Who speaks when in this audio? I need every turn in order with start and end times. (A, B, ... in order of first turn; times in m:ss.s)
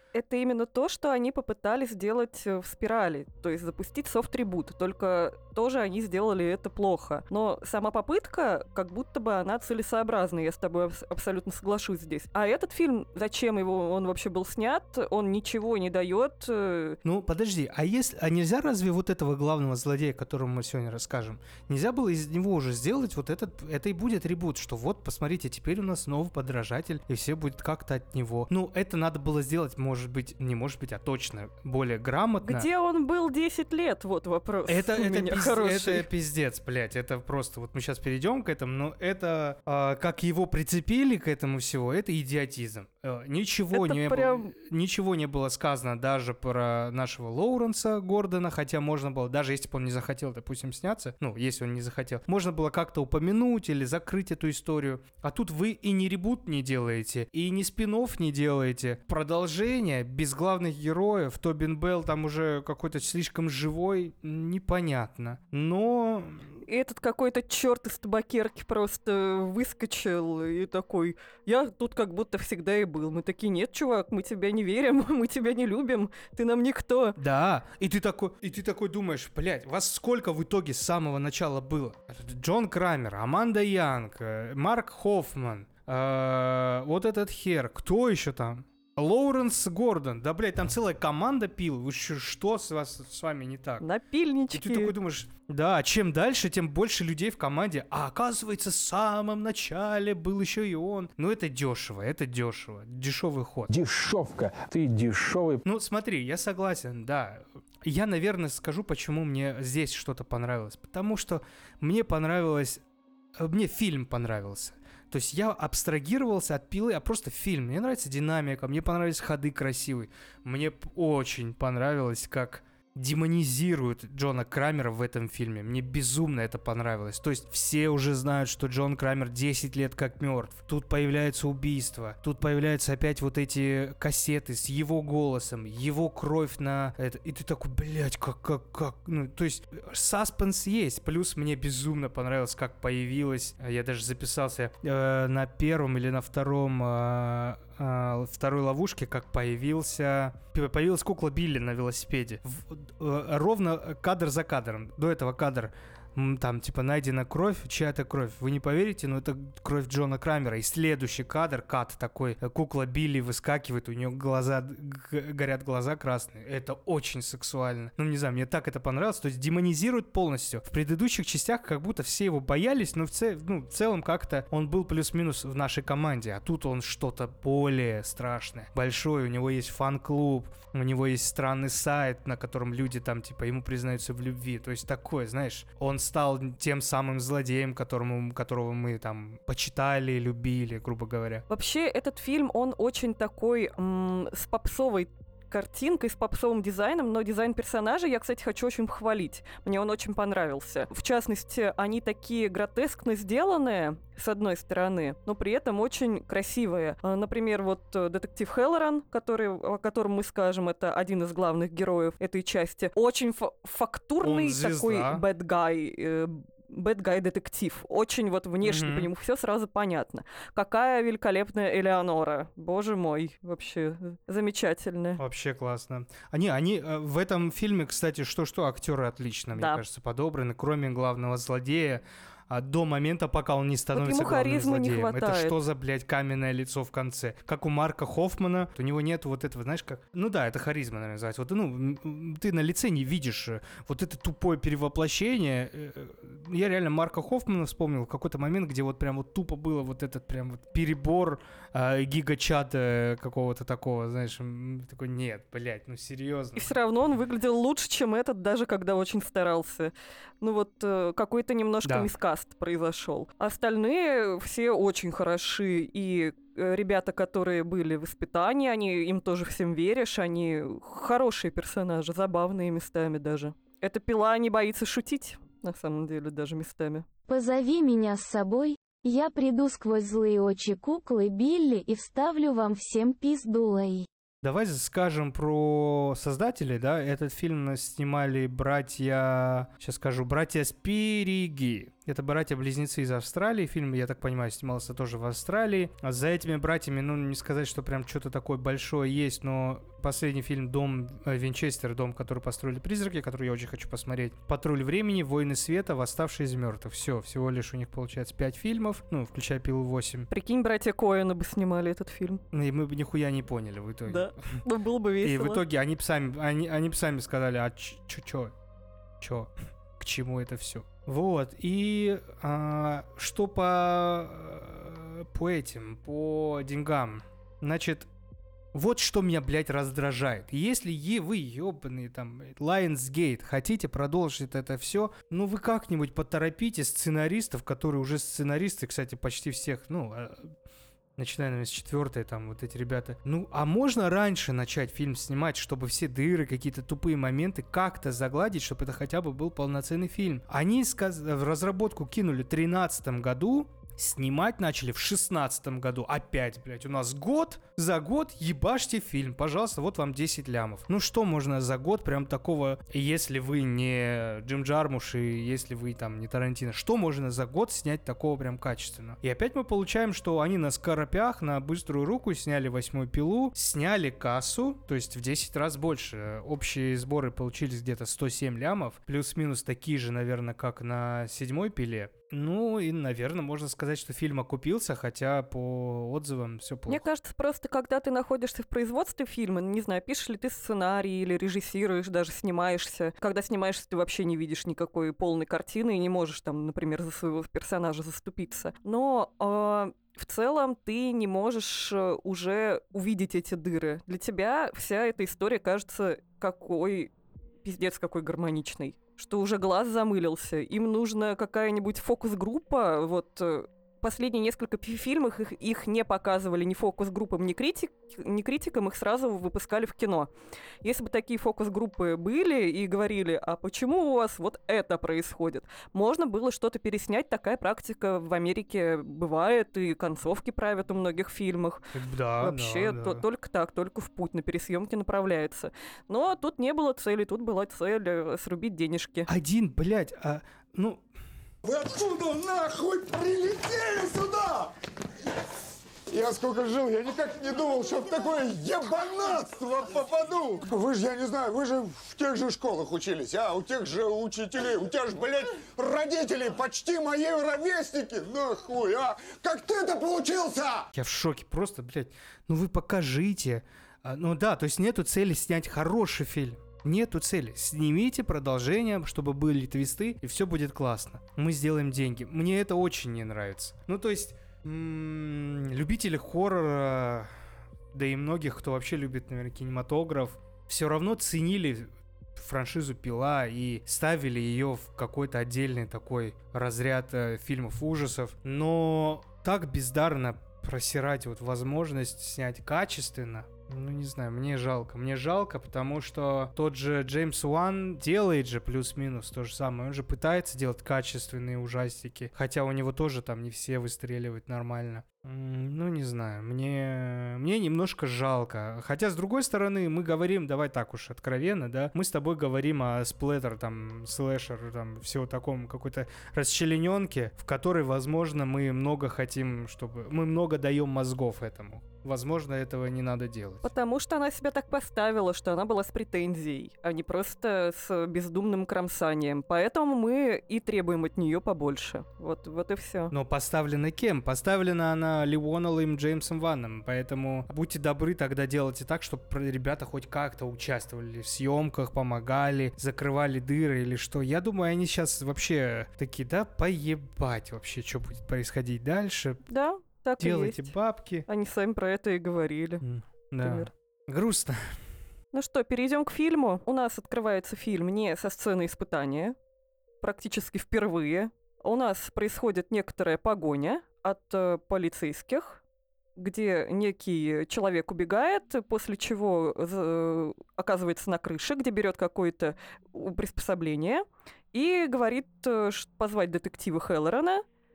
0:00.1-0:17.0 A
0:17.0-0:32.7 B
0:32.4-0:36.0 A
0:34.7-1:06.5 B
0:43.7-0:44.5 A
1:06.6-1:17.2 A
1:17.2-1:33.9 B
1:33.8-1:34.9 A
1:34.5-1:43.7 B
1:43.7-1:45.6 C
1:45.6-1:52.8 B
1:53.4-3:11.4 B
3:11.5-3:45.2 A
3:34.2-3:35.2 B
3:38.6-3:39.1 B
3:45.2-4:16.8 B
3:49.5-3:49.8 A
3:53.9-3:55.5 A
4:16.6-4:37.0 A
4:21.8-4:22.1 B
4:37.3-4:44.1 D
4:44.4-5:10.3 B
5:10.3-5:12.4 A
5:12.5-5:14.6 B
5:14.1-5:15.6 A
5:15.2-5:18.5 B
5:19.2-5:28.1 B
5:28.7-5:40.5 B
5:41.2-6:27.0 B
6:26.9-6:47.1 A
6:47.6-7:00.3 A
7:00.8-7:11.8 A
7:11.9-7:13.2 B
7:12.4-7:19.3 A
7:19.3-7:21.0 B
7:21.6-7:24.7 E
7:26.1-7:40.9 E
7:40.9-7:57.3 B
7:57.9-8:43.7 B
8:43.6-8:53.1 A
8:53.1-9:09.4 B
9:09.5-9:10.7 A
9:10.2-9:11.3 B
9:11.3-9:12.8 A
9:12.8-9:14.8 B
9:13.4-9:13.7 A
9:15.3-9:19.3 A
9:20.0-9:25.6 A
9:26.2-9:37.4 A